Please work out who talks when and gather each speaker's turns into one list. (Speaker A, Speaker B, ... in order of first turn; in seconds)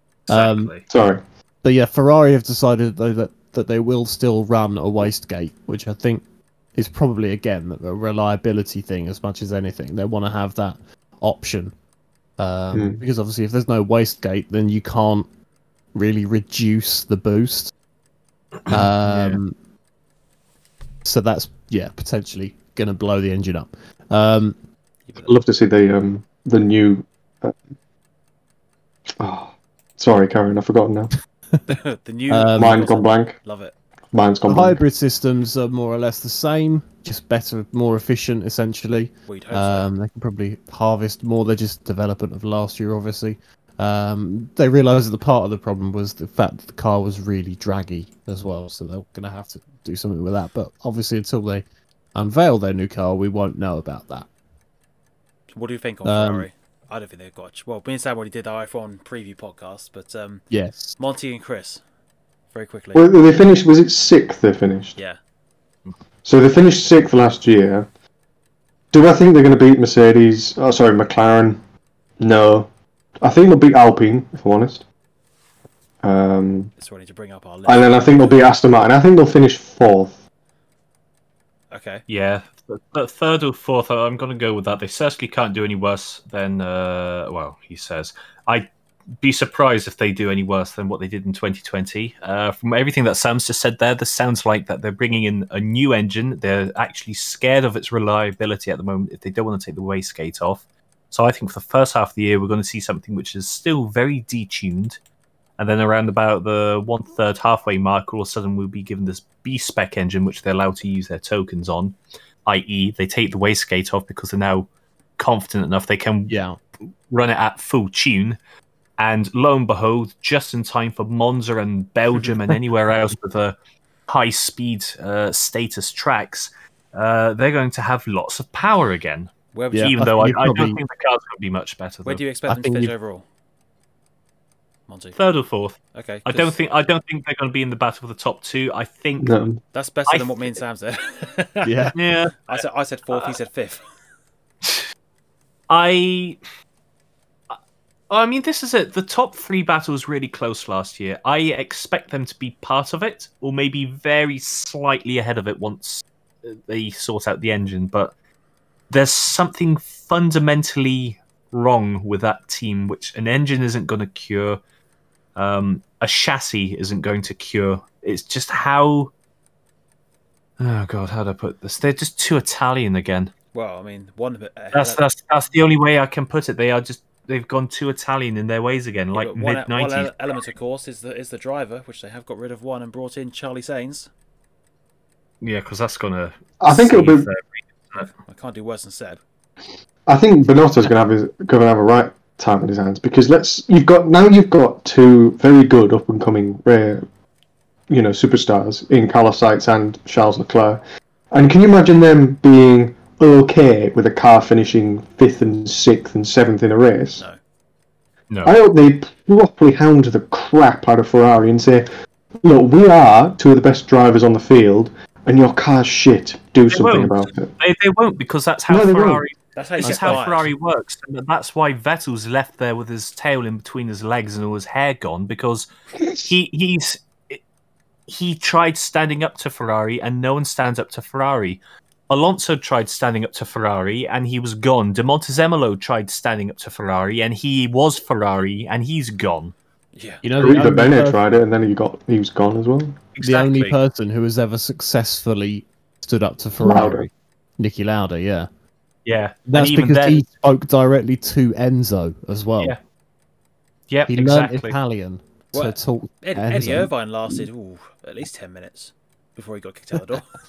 Speaker A: 0.3-0.7, 1.6-6.2, 6.8-11.7, 12.4-15.3, 15.9-17.7, 18.7-19.6, 21.1-24.6, 32.3-32.8, 34.5-54.3, 56.0-56.5, 60.5-61.0, 116.3-116.6, 129.7-130.8, 132.5-132.9, 141.6-141.9, 219.8-220.2, 240.2-241.2, 243.2-248.5, 249.5-252.8, 254.1-256.9
Speaker B: 0.3-0.8, 18.7-19.4, 82.1-105.0, 105.6-116.3, 117.1-118.4, 119.0-123.6, 124.1-132.2, 135.2-139.4, 140.1-140.5, 141.9-142.6, 145.7-146.4, 148.1-158.1, 158.9-164.6, 165.4-169.1, 170.6-173.3, 174.7-180.1, 185.4-188.1, 208.3-208.6, 216.7-227.4, 228.1-239.6, 243.2-243.8, 249.1-250.2, 253.9-254.8
Speaker C: 0.9-1.2, 12.7-13.0, 25.2-27.6, 29.2-31.1, 32.5-33.4, 34.1-34.8, 63.0-65.0, 66.2-67.9, 68.9-71.6, 72.2-72.7, 73.2-74.8, 76.0-76.7, 77.7-80.2, 139.2-139.6, 186.6-187.3, 190.1-197.1, 197.9-207.2, 208.4-211.9, 212.4-217.5, 218.7-219.2, 240.4-243.0, 246.6-247.1
Speaker D: 25.1-25.3, 31.7-33.7, 39.3-39.9, 55.5-61.8, 62.5-63.2, 76.8-78.5, 81.7-82.0, 129.5-129.9, 132.1-133.2, 134.9-135.2, 135.9-136.6, 139.7-141.9, 142.5-143.8, 173.5-175.0, 179.1-184.1, 188.3-189.2, 219.6-220.5, 240.0-240.2, 255.5-260.3